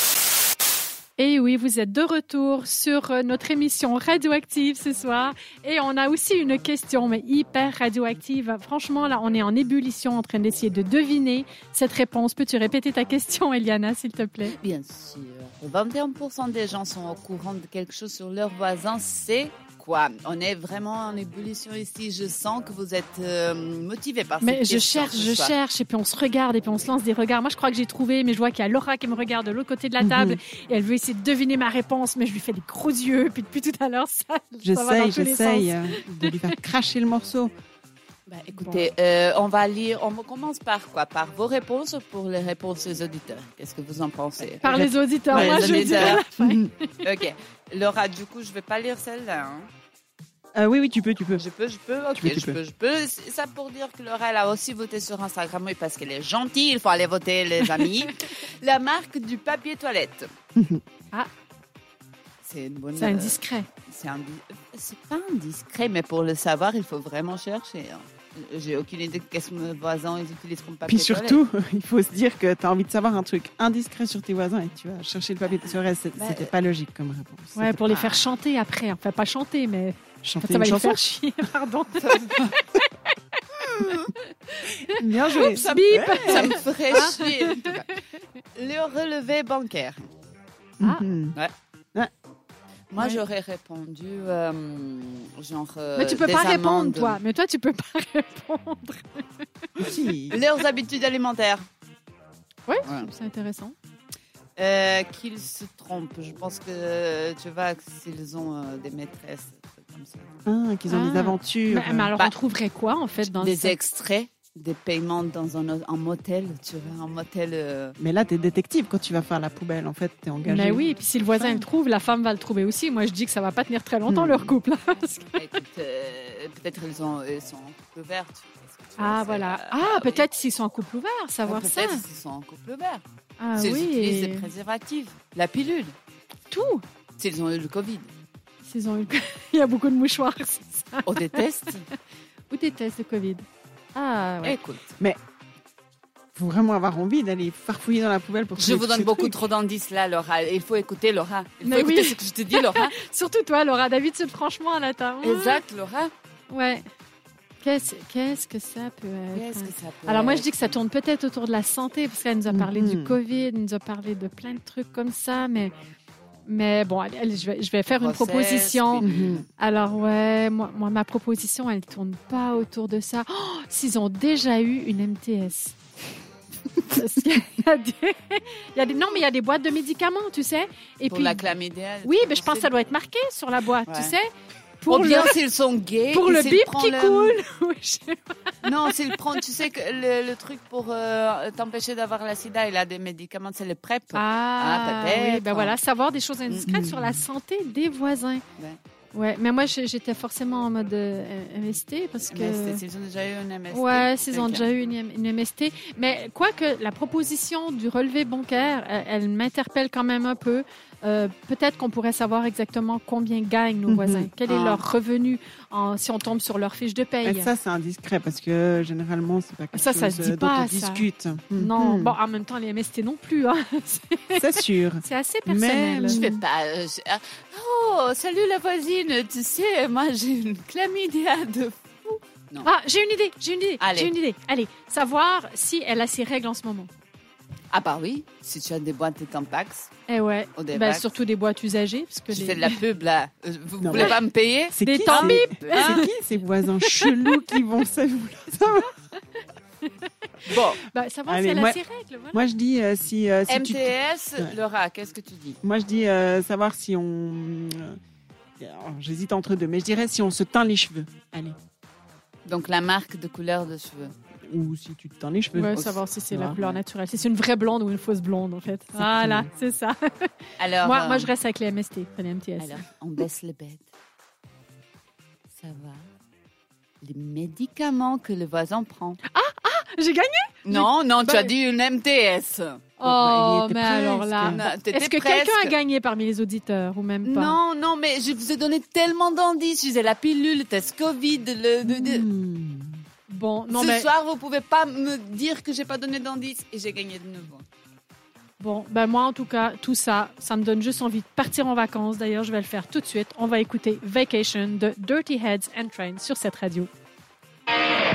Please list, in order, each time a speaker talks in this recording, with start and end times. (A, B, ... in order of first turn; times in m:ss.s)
0:01.2-0:14.6 A
0:14.4-0:25.6 B
0:24.4-0:36.3 A
0:30.0-0:30.4 C
0:34.6-0:37.5 C
0:38.3-0:44.7 B
0:38.6-0:38.9 A
0:44.6-0:46.7 C
0:44.6-0:46.9 A
0:45.3-0:46.2 B
0:47.0-0:49.7 B
0:50.6-0:51.4 C
0:51.4-1:00.3 B
0:52.2-0:52.6 C
1:00.6-1:00.8 C
1:02.4-1:11.4 B
1:03.0-1:03.7 A
1:10.9-1:17.7 C
1:15.4-1:16.5 B
1:17.6-1:22.8 A
1:17.8-1:18.3 B
1:20.2-1:21.0 C
1:22.0-1:22.5 B
1:23.7-1:24.1 B
1:24.9-1:26.6 C
1:24.9-1:27.9 A
1:25.4-1:28.0 B
1:28.6-1:30.0 B
1:30.8-1:31.4 C
1:32.9-1:37.2 B
1:36.0-1:39.9 A
1:39.8-1:40.4 C
1:40.3-1:41.7 B
1:42.7-1:43.8 A
1:42.8-1:43.1 B
1:44.6-1:50.3 B
1:50.4-1:52.1 C
1:50.9-1:53.8 A
1:53.2-1:58.0 B
1:58.0-2:01.6 C
2:00.4-2:05.5 A
2:04.1-2:04.5 C
2:05.4-2:10.3 B
2:09.0-2:12.0 A
2:11.4-2:13.0 B
2:13.4-2:14.5 A
2:13.6-2:16.0 B
2:16.5-2:16.8 A
2:17.2-2:18.1 B
2:18.6-2:21.9 A
2:21.1-2:21.9 B
2:22.5-2:24.6 A
2:24.4-2:25.0 B
2:26.4-2:29.4 C
2:28.6-2:33.0 B
2:31.6-2:35.6 A
2:35.2-2:36.1 B
2:36.5-2:36.9 A
2:37.6-2:45.7 A
2:39.3-2:40.8 B
2:42.5-2:43.2 C
2:46.5-2:55.8 A
2:47.9-2:49.5 B
2:49.0-2:49.4 C
2:56.8-3:01.5 A
3:01.1-3:02.8 B
3:02.0-3:04.3 A
3:03.9-3:04.2 B
3:04.8-3:05.4 A
3:04.9-3:07.4 B
3:06.1-3:09.1 A
3:08.6-3:15.8 B
3:14.1-3:18.4 A
3:16.7-3:17.2 C
3:19.1-3:22.8 A
3:22.3-3:24.7 B
3:23.7-3:37.5 A
3:33.9-3:34.3 C
3:34.5-3:34.8 B
3:37.2-3:42.2 C
3:39.7-3:46.2 A
3:44.4-3:46.4 C
3:46.0-3:52.7 B
3:52.6-3:56.9 A
3:53.8-3:54.1 B
3:57.7-3:59.9 B
4:00.1-4:02.8 A
4:00.6-4:01.1 B
4:02.3-4:06.1 B
4:03.8-4:04.2 C
4:04.7-4:08.9 C
4:04.8-4:06.1 A
4:06.8-4:07.3 A
4:10.5-4:10.8 B
4:10.5-4:12.4 A
4:11.3-4:11.8 C
4:12.3-4:14.6 C
4:13.5-4:15.6 B
4:15.6-4:18.0 C
4:18.6-4:21.6 C
4:22.5-4:24.1 B
4:24.5-4:26.7 C
4:25.5-4:32.8 A
4:29.0-4:29.5 C
4:30.6-4:31.3 B
4:32.6-4:33.9 B
4:35.5-4:36.1 B
4:37.0-4:39.2 B
4:39.3-4:41.5 A
4:40.6-4:43.6 B
4:43.0-4:47.6 A
4:43.2-4:44.6 C
4:44.4-4:45.8 B
4:47.2-4:52.3 B
4:51.8-4:53.0 C
4:53.3-4:54.1 A
4:53.7-4:57.6 B
4:58.6-5:06.9 A